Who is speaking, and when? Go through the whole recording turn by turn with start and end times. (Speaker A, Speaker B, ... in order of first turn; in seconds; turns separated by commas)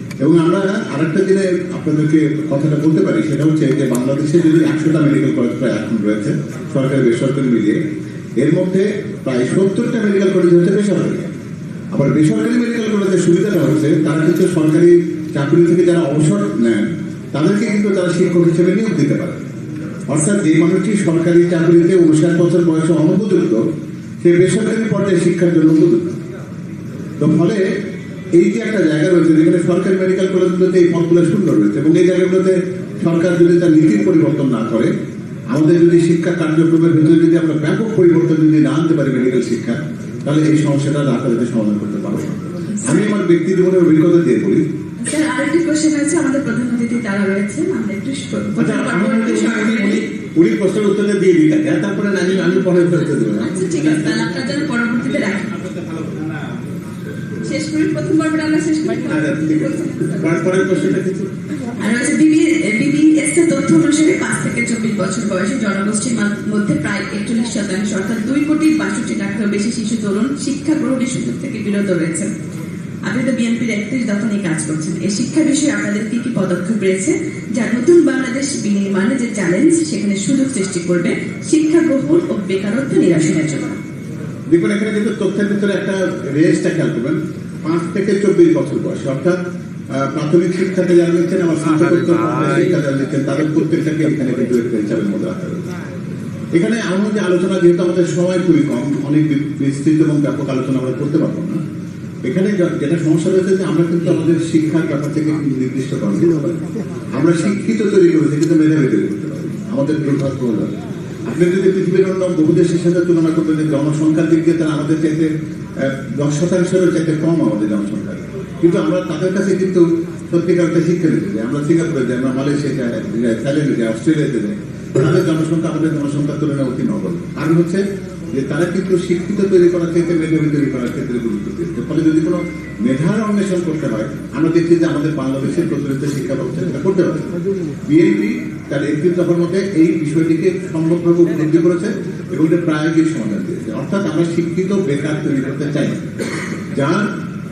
Speaker A: 0.2-7.8, Speaker A: 8.4-11.2, Speaker A: 11.9-19.4, Speaker A: 20.1-23.6, Speaker A: 24.2-26.2, Speaker A: 27.2-27.6, Speaker A: 28.4-34.9, Speaker A: 35.5-44.6, Speaker B: 45.0-50.0, Speaker A: 48.6-53.8, Speaker B: 53.4-55.6, Speaker B: 57.4-60.6, Speaker A: 59.1-61.3, Speaker B: 61.8-72.3, Speaker B: 73.0-83.8, Speaker A: 84.5-89.4, Speaker A: 89.9-95.6, Speaker A: 96.5-101.6, Speaker A: 102.2-106.6, Speaker A: 107.1-110.7, Speaker A: 111.2-137.3, Speaker A: 137.9-146.1, Speaker A: 146.7-147.1